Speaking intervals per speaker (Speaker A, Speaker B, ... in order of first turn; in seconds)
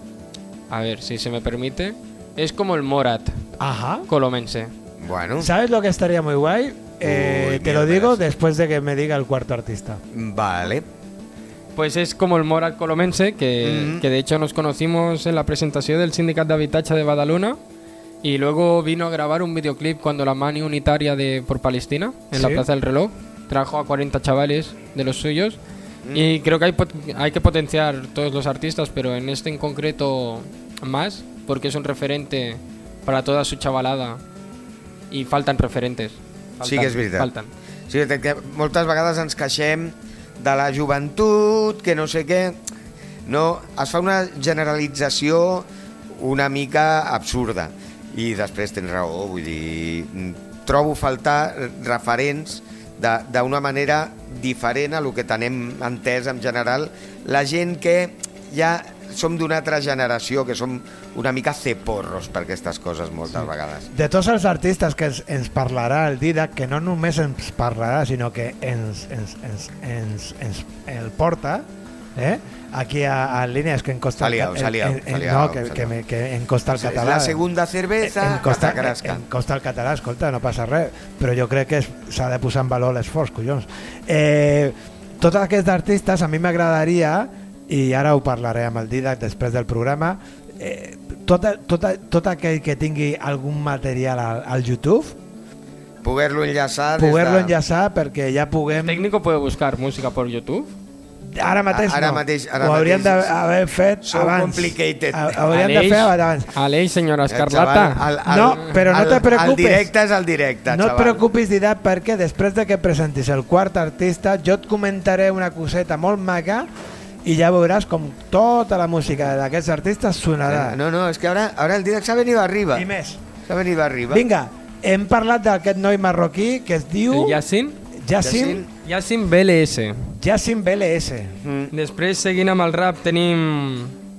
Speaker A: 0.7-3.4, 4.1-4.7, 11.8-17.6, 18.2-25.6, 26.1-34.2, 35.1-37.5, 98.8-100.7, 105.5-108.1, 127.1-127.8, 128.8-130.1, 131.7-133.9
Speaker B: 3.6-4.0, 5.4-10.0, 22.3-22.6, 63.4-71.6, 72.2-77.4, 78.0-95.2, 97.0-99.0, 101.3-106.5, 108.2-109.9, 110.7-116.7, 117.2-120.8, 122.7-123.2, 124.1-127.4, 128.0-128.6, 130.2-131.4
Speaker C: 5.0-5.5, 7.0-8.2, 10.1-10.8, 13.6-14.0, 26.0-26.3, 36.6-37.3, 37.9-42.6, 43.2-63.9, 74.2-75.9, 76.7-79.2, 96.0-97.5, 101.7-103.3, 104.0-105.4, 107.3-111.2, 120.4-122.9, 123.4-124.2, 128.2-128.7, 131.4-131.7